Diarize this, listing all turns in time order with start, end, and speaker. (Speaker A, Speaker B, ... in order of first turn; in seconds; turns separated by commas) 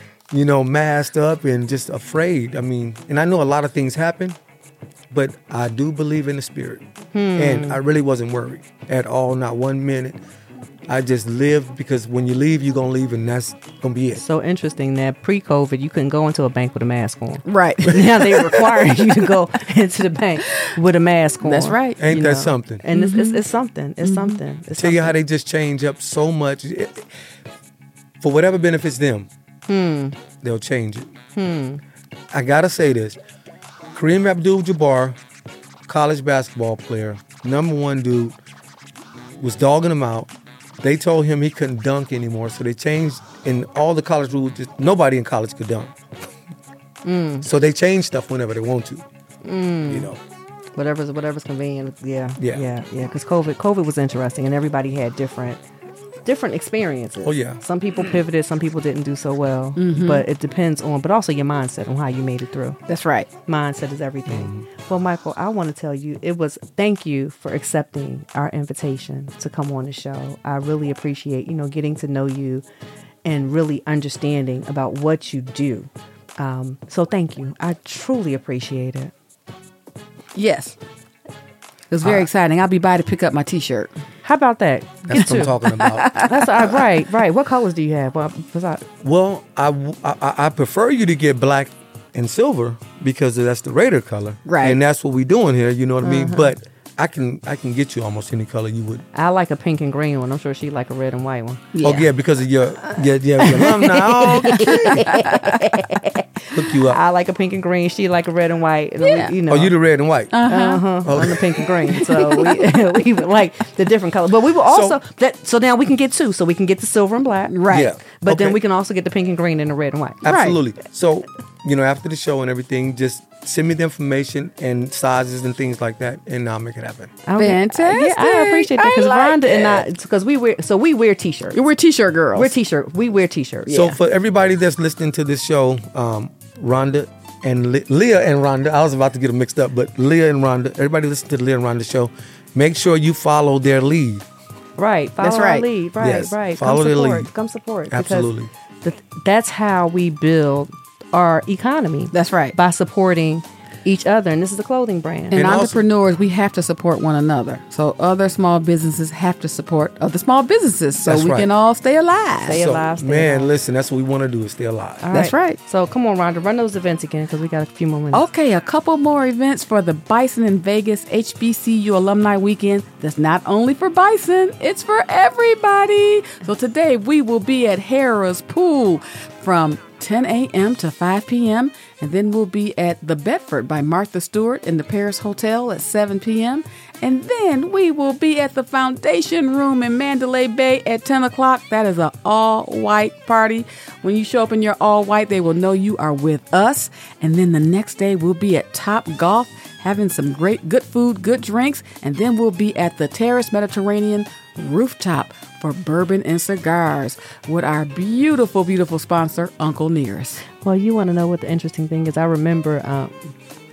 Speaker A: 0.3-4.4, Speaker A: 5.1-10.2, Speaker B: 7.1-7.8, Speaker A: 10.9-14.2, Speaker B: 14.2-25.2, Speaker C: 17.5-18.6, Speaker C: 21.4-22.0, Speaker A: 22.0-22.8, Speaker C: 22.9-23.4, Speaker C: 24.0-24.4, Speaker A: 24.8-27.1, Speaker A: 28.2-29.3, Speaker B: 29.7-30.2, Speaker A: 30.4-31.1, Speaker B: 31.4-31.8, Speaker A: 32.3-33.2, Speaker A: 33.9-35.2, Speaker A: 35.9-38.4, Speaker A: 39.4-40.3, Speaker A: 40.8-46.0, Speaker B: 47.0-47.5, Speaker A: 47.4-49.0, Speaker B: 49.4-50.1, Speaker A: 49.9-50.2, Speaker B: 50.8-55.6, Speaker A: 52.4-52.7, Speaker B: 56.2-62.8, Speaker A: 57.2-57.6, Speaker C: 59.8-60.2, Speaker C: 62.9-63.3, Speaker B: 63.5-72.7, Speaker A: 64.3-64.7, Speaker B: 73.2-79.1, Speaker C: 80.3-80.8, Speaker C: 81.9-83.9, Speaker B: 84.2-85.6, Speaker A: 85.0-86.2, Speaker C: 85.2-86.8, Speaker B: 86.1-88.8, Speaker A: 89.0-99.0, Speaker C: 94.5-94.8, Speaker B: 96.0-96.5, Speaker B: 99.1-101.7, Speaker C: 101.7-102.1, Speaker A: 101.8-105.1, Speaker B: 102.8-109.8, Speaker C: 104.4-105.6, Speaker A: 106.5-107.0, Speaker C: 109.0-109.3, Speaker A: 109.5-110.3, Speaker C: 110.3-113.0, Speaker B: 110.4-120.2, Speaker A: 111.0-111.5, Speaker A: 114.7-115.0, Speaker C: 117.5-117.9, Speaker A: 117.7-118.6, Speaker A: 120.2-127.2, Speaker C: 120.3-120.6, Speaker B: 127.2-131.6, Speaker C: 127.4-129.8, Speaker C: 131.5-132.5, Speaker B: 132.3-133.9, Speaker C: 133.7-133.9, Speaker A: 133.7-144.3, Speaker B: 144.8-148.3, Speaker C: 145.2-145.7, Speaker A: 146.0-147.3, Speaker A: 147.9-148.5, Speaker B: 148.8-155.5, Speaker C: 152.1-152.6, Speaker A: 155.3-155.8, Speaker C: 155.3-162.6, Speaker A: 161.0-161.5, Speaker B: 162.4-163.5, Speaker A: 162.5-165.1, Speaker B: 165.0-168.2, Speaker C: 165.1-165.6, Speaker C: 168.1-210.4, Speaker B: 210.6-213.2